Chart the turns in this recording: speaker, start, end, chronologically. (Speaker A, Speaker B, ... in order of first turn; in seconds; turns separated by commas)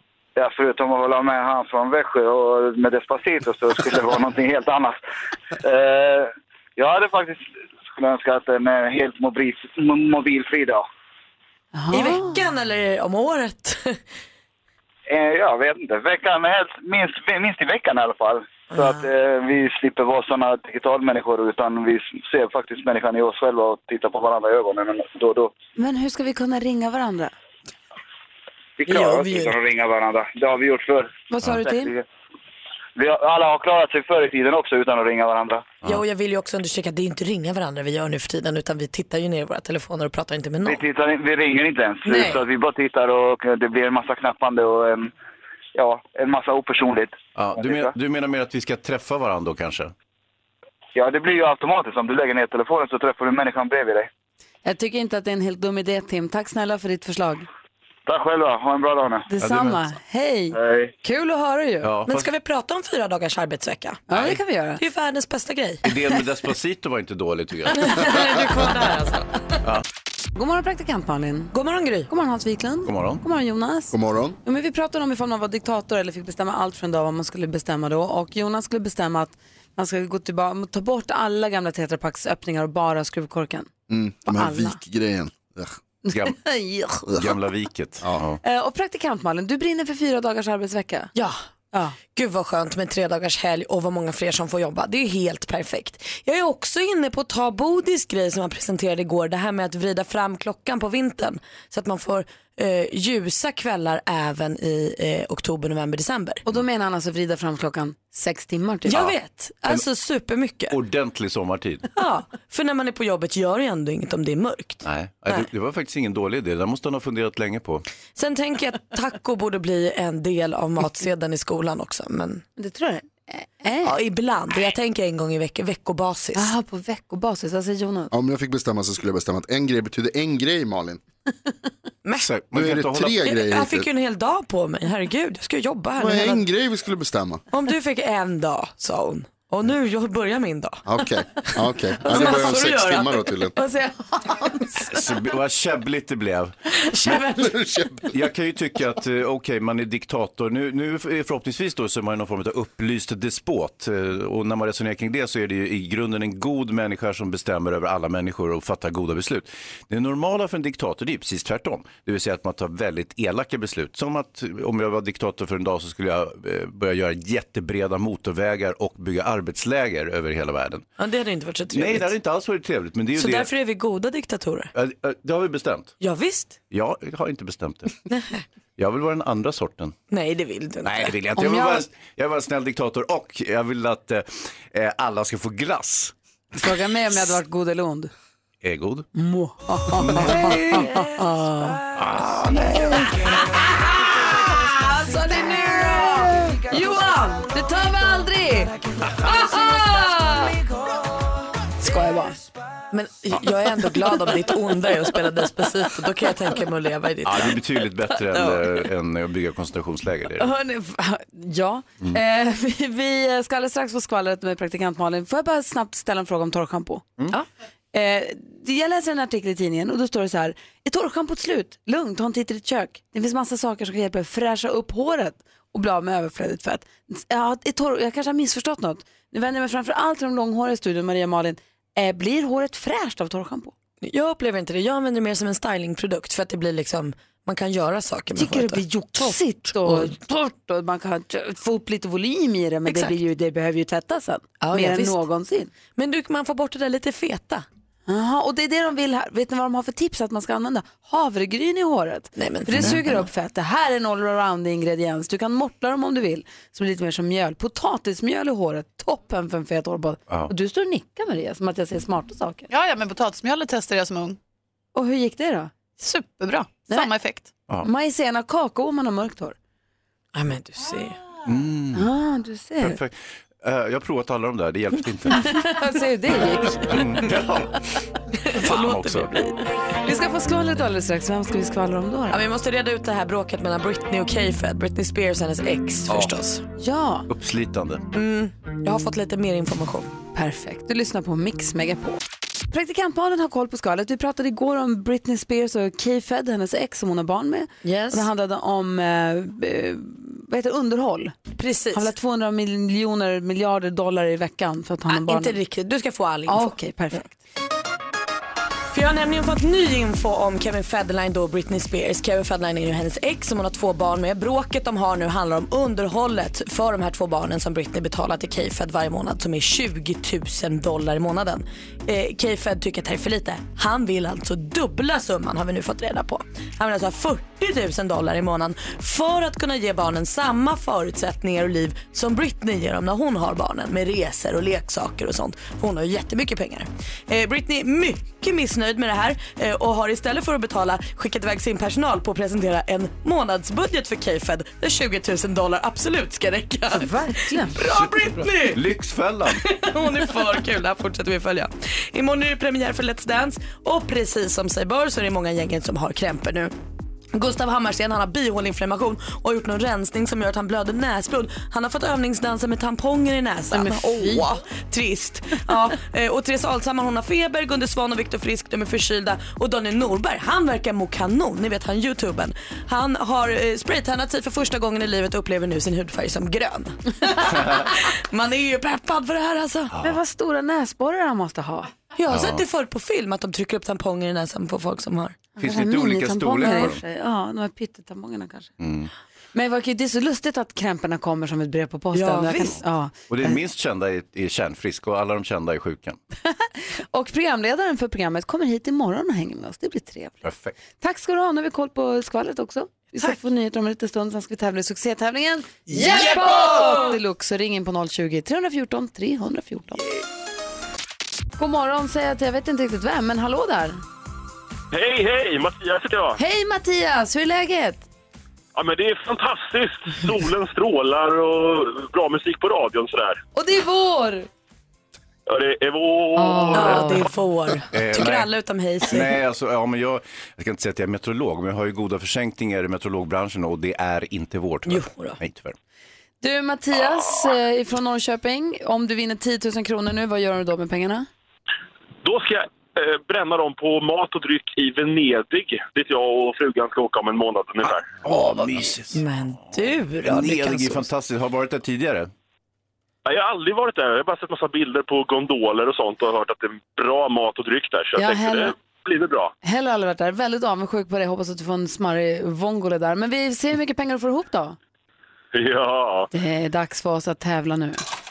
Speaker A: 0.4-5.0, Speaker A: 5.6-10.8, Speaker B: 11.7-12.4, Speaker C: 11.9-14.0, Speaker A: 15.1-25.5, Speaker C: 18.8-19.1, Speaker B: 25.8-27.3, Speaker A: 28.8-32.0, Speaker C: 28.9-29.6, Speaker B: 31.3-31.9, Speaker A: 33.0-35.7, Speaker C: 35.9-40.8, Speaker A: 40.6-45.1, Speaker C: 42.1-42.4, Speaker A: 45.8-47.9, Speaker D: 47.4-49.9, Speaker A: 51.0-54.1, Speaker B: 54.6-57.5, Speaker A: 58.1-59.3, Speaker B: 59.3-61.9, Speaker D: 59.4-59.9, Speaker A: 60.5-60.9, Speaker D: 61.8-62.3, Speaker C: 62.1-64.0, Speaker B: 64.1-64.8, Speaker C: 64.8-65.9, Speaker D: 65.8-68.6, Speaker C: 67.8-69.2, Speaker B: 70.3-71.5, Speaker C: 71.5-72.1, Speaker B: 72.1-83.7, Speaker D: 72.8-73.2, Speaker E: 73.9-74.4, Speaker E: 83.9-85.8, Speaker B: 84.3-84.8, Speaker B: 86.1-87.1, Speaker D: 86.1-86.4, Speaker E: 87.1-87.3, Speaker D: 87.2-88.4, Speaker B: 88.4-91.1, Speaker C: 91.2-91.4, Speaker C: 92.1-106.4, Speaker B: 106.5-109.1, Speaker C: 108.8-110.8, Speaker D: 110.7-111.9, Speaker C: 112.0-115.5, Speaker D: 114.8-117.8, Speaker C: 118.2-122.4, Speaker B: 122.6-124.0, Speaker C: 123.8-126.5, Speaker B: 126.3-128.1, Speaker E: 128.1-131.0, Speaker D: 132.2-133.2, Speaker E: 132.5-133.9, Speaker C: 133.2-136.5, Speaker E: 136.0-137.4, Speaker C: 137.5-141.5, Speaker E: 140.9-143.6, Speaker C: 142.0-144.5, Speaker D: 144.9-146.6, Speaker C: 146.9-147.6, Speaker E: 147.3-148.0, Speaker D: 148.1-170.8, Speaker C: 171.0-172.1, Speaker D: 171.7-173.5, Speaker C: 173.2-174.7, Speaker D: 174.8-175.9, Speaker C: 176.0-176.6, Speaker D: 176.7-177.9, Speaker C: 178.1-178.3, Speaker D: 178.8-179.9, Speaker C: 180.1-181.2, Speaker D: 180.8-186.1, Speaker B: 181.4-181.9, Speaker B: 186.6-188.1, Speaker D: 188.6-189.1, Speaker B: 189.2-191.8, Speaker D: 190.1-190.5, Speaker C: 190.5-191.0, Speaker D: 191.9-193.0, Speaker B: 194.8-198.7, Speaker B: 199.2-200.6, Speaker B: 201.8-202.4, Speaker C: 202.9-207.6, Speaker D: 207.2-210.5, Speaker B: 210.4-217.1, Speaker B: 217.9-233.7, Speaker C: 234.0-240.1, Speaker B: 238.4-245.7, Speaker C: 242.9-243.2, Speaker C: 244.6-245.2, Speaker C: 246.0-247.7, Speaker B: 248.1-262.7, Speaker C: 252.4-253.3, Speaker D: 252.7-253.0, Speaker F: 262.7-264.4, Speaker B: 264.9-265.7, Speaker B: 266.9-267.1, Speaker F: 267.1-267.4, Speaker B: 267.8-269.6, Speaker C: 270.4-271.2, Speaker D: 271.5-272.1, Speaker B: 271.9-273.0, Speaker D: 272.8-275.6, Speaker B: 275.4-277.2, Speaker D: 276.8-277.8, Speaker C: 278.5-279.4, Speaker D: 278.5-279.4, Speaker B: 280.0-282.4, Speaker C: 282.3-286.6, Speaker D: 286.1-286.3, Speaker B: 286.8-287.3, Speaker D: 287.3-288.0, Speaker C: 288.1-290.1, Speaker B: 290.4-292.2, Speaker B: 292.7-301.4, Speaker C: 297.8-298.3, Speaker C: 301.6-302.1, Speaker B: 301.9-305.6, Speaker C: 305.1-307.2, Speaker B: 306.5-307.3, Speaker C: 308.9-348.8, Speaker B: 347.0-347.7, Speaker D: 347.8-349.6, Speaker C: 349.5-356.7, Speaker C: 357.3-380.0, Speaker B: 363.7-364.4, Speaker B: 380.0-381.9, Speaker C: 382.2-385.4, Speaker D: 382.3-382.6, Speaker D: 385.6-387.0, Speaker B: 385.6-388.7, Speaker D: 388.8-389.1, Speaker B: 389.5-393.6, Speaker C: 392.1-392.8, Speaker D: 393.3-396.2, Speaker B: 396.4-410.0, Speaker D: 400.4-400.8, Speaker C: 405.9-407.1, Speaker B: 411.6-414.0, Speaker G: 414.9-416.4, Speaker B: 416.4-418.1, Speaker G: 418.8-423.4, Speaker B: 423.5-424.5, Speaker G: 425.5-427.1, Speaker B: 426.6-426.8, Speaker C: 426.7-429.4, Speaker D: 427.9-428.5, Speaker D: 429.0-435.8, Speaker C: 434.9-435.4, Speaker B: 436.4-441.3, Speaker G: 442.2-448.1, Speaker D: 448.2-449.2, Speaker C: 448.2-451.1, Speaker D: 450.2-452.3, Speaker G: 453.2-459.5, Speaker B: 458.2-458.7, Speaker B: 459.6-464.8, Speaker G: 465.5-466.3, Speaker B: 466.3-468.0